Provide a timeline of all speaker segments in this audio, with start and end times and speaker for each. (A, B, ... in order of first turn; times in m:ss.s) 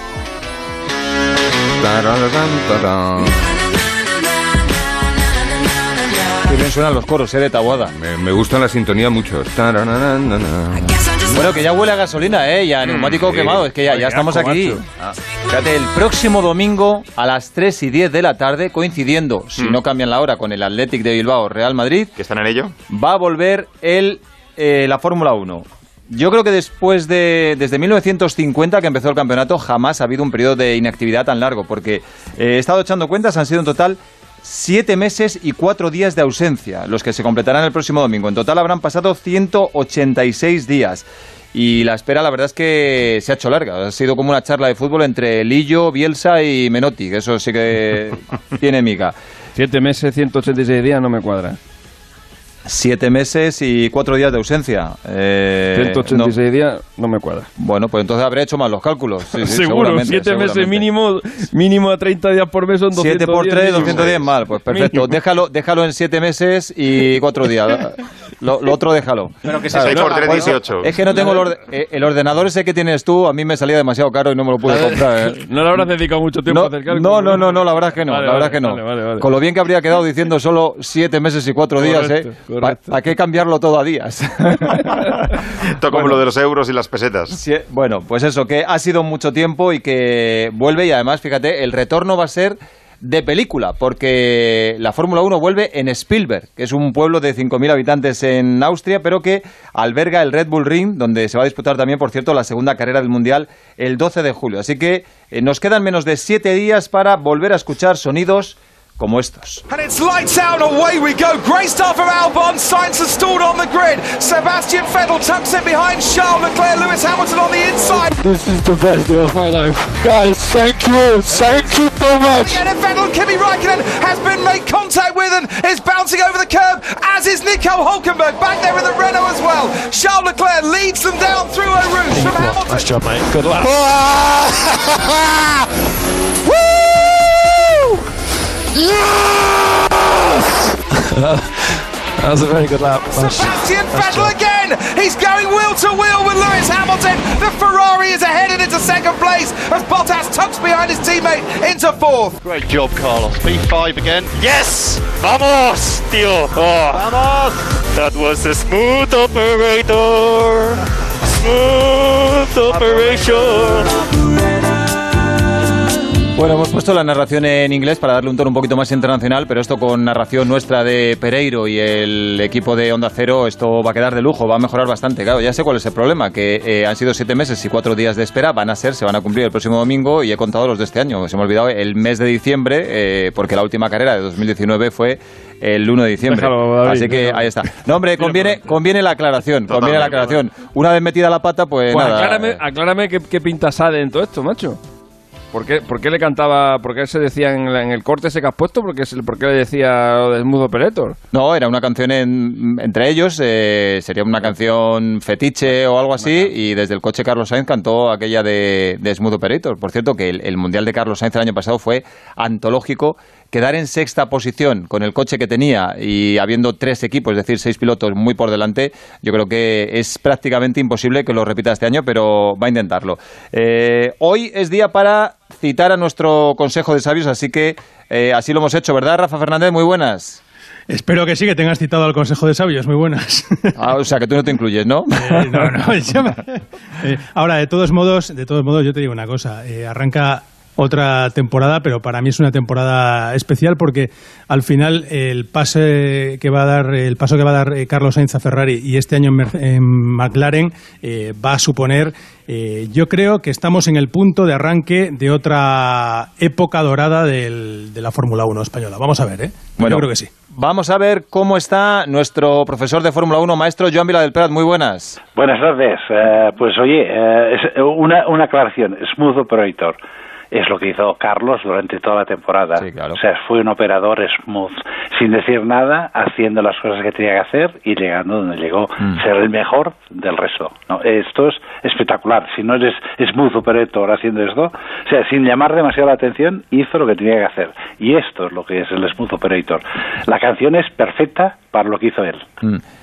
0:01.8-0:03.5 A
0:06.4-0:07.9 B
0:07.9-0:11.0 A
0:10.9-0:14.8 B
0:13.1-0:13.6 A
0:13.8-0:14.9 C
0:15.5-0:22.1 B
0:22.2-0:22.7 D
0:22.9-0:49.1 B
0:49.6-0:51.6 C
0:52.6-0:56.3 B
0:55.7-0:57.5 C
0:57.6-1:00.9 B
0:59.3-1:05.1 C
1:02.9-1:15.8 B
1:09.5-1:10.6 C
1:09.7-1:10.9 D
1:11.1-1:11.5 C
1:14.6-1:19.3 C
1:16.5-1:26.2 B
1:21.8-1:22.9 C
1:25.6-1:27.4 D
1:27.3-1:49.6 B
1:49.7-1:58.2 E
1:58.1-2:02.6 F
2:02.3-2:12.9 E
2:12.1-2:14.8 F
2:18.7-2:20.1 F
2:21.0-2:24.3 F
2:23.2-2:32.4 E
2:32.4-2:40.8 G
2:41.4-2:43.9 G
2:46.4-3:12.6 B
3:06.2-3:07.6 C
3:08.2-3:08.6 C
3:09.7-3:10.4 D
3:11.9-3:14.8 C
3:15.5-3:21.2 C
3:21.3-3:50.4 B
3:50.9-3:53.8 H
3:53.7-3:55.7 B
3:55.2-4:20.3 H
4:19.8-4:25.2 B
4:25.3-4:30.0 I
4:30.5-4:52.4 I
4:32.8-4:33.2 B